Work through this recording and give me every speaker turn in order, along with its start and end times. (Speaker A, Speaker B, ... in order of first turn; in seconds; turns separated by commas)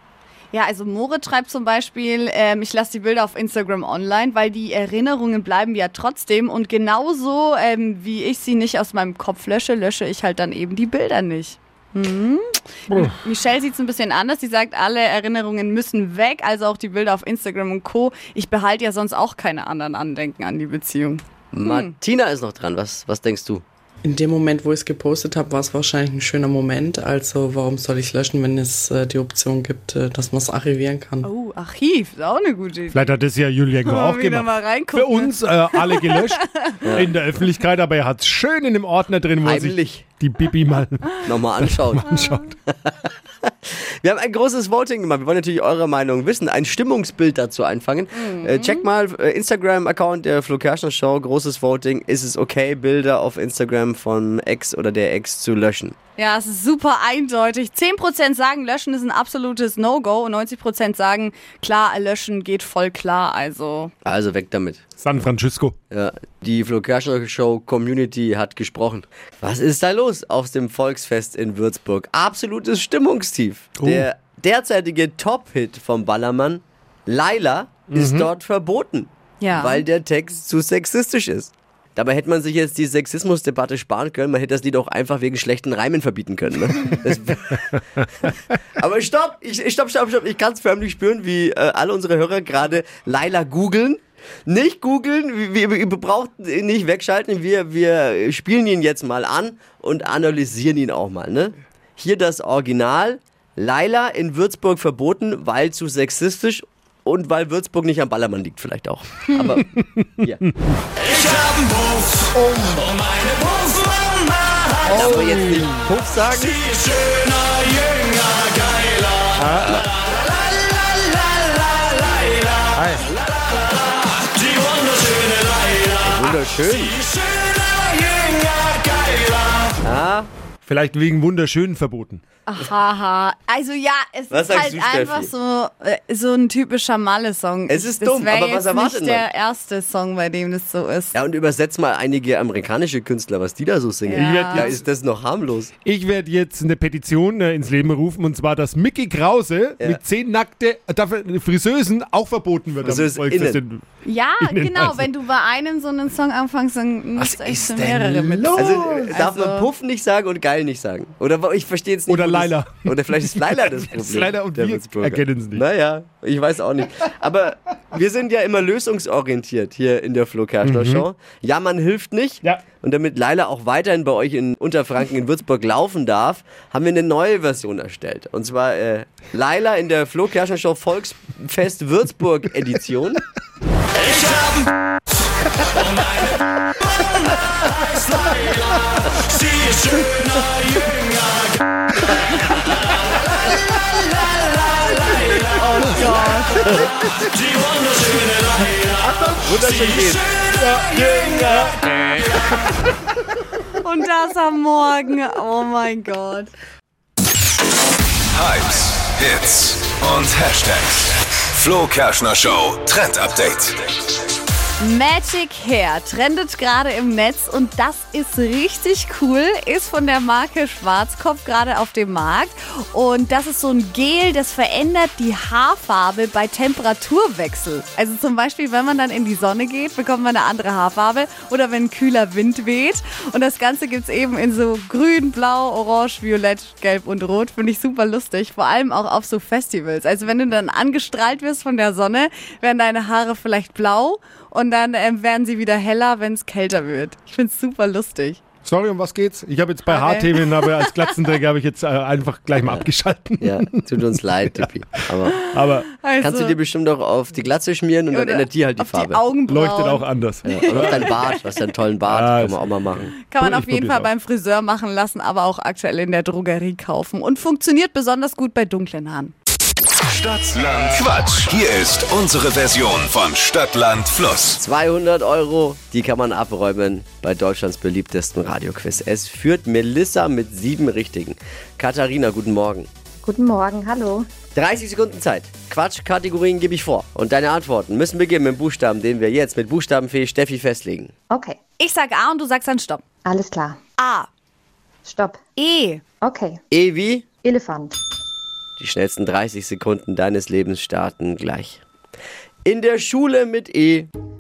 Speaker A: 0.5-21.9, Speaker B: 21.5-23.6, Speaker C: 24.1-31.3, Speaker A: 31.2-33.1, Speaker D: 32.9-36.4, Speaker A: 33.8-37.0, Speaker B: 36.8-37.1, Speaker D: 36.9-42.5, Speaker B: 39.4-40.1, Speaker B: 41.2-56.0, Speaker A: 48.1-48.9, Speaker A: 56.2-63.9, Speaker B: 64.0-64.8, Speaker D: 65.0-65.8, Speaker B: 65.9-109.7, Speaker D: 73.8-74.0, Speaker D: 77.9-78.3, Speaker A: 79.4-79.8, Speaker A: 109.3-109.6, Speaker D: 109.7-110.5, Speaker B: 111.0-111.4, Speaker D: 112.5-112.8, Speaker B: 114.8-116.7, Speaker D: 114.9-115.9, Speaker D: 119.4-119.8, Speaker D: 122.8-123.0, Speaker B: 126.0-127.0, Speaker B: 129.8-130.3, Speaker D: 130.6-132.2, Speaker A: 132.5-141.2, Speaker B: 134.3-135.3, Speaker B: 137.7-139.3, Speaker B: 141.1-145.7, Speaker A: 144.1-144.8, Speaker D: 144.2-144.7, Speaker D: 145.8-153.8, Speaker B: 152.8-153.6, Speaker A: 154.0-159.7, Speaker D: 154.4-155.0, Speaker D: 157.2-159.0, Speaker B: 158.5-183.2, Speaker D: 162.1-165.7, Speaker D: 170.6-171.1, Speaker B: 195.0-196.9, Speaker A: 195.8-196.8, Speaker B: 199.0-200.3, Speaker D: 200.6-202.2, Speaker A: 203.8-206.5, Speaker E: 208.3-213.8, Speaker A: 214.8-248.4, Speaker D: 248.7-255.8, Speaker A: 249.9-251.3, Speaker B: 253.4-255.4, Speaker A: 255.3-256.6, Speaker B: 256.2-259.2, Speaker A: 258.1-261.6, Speaker D: 259.5-261.0, Speaker B: 260.4-263.1, Speaker D: 262.1-262.9, Speaker A: 263.2-269.3, Speaker D: 263.4-264.1, Speaker E: 270.2-274.6, Speaker B: 274.6-282.9, Speaker F: 283.2-284.3, Speaker B: 284.5-291.1, Speaker F: 291.3-291.6, Speaker A: 291.8-293.0, Speaker F: 293.2-293.8, Speaker A: 294.0-294.3, Speaker F: 295.1-295.4, Speaker A: 295.6-296.0, Speaker F: 296.2-296.6, Speaker B: 296.7-297.3, Speaker F: 297.4-298.0, Speaker B: 298.8-301.8, Speaker B: 302.6-304.1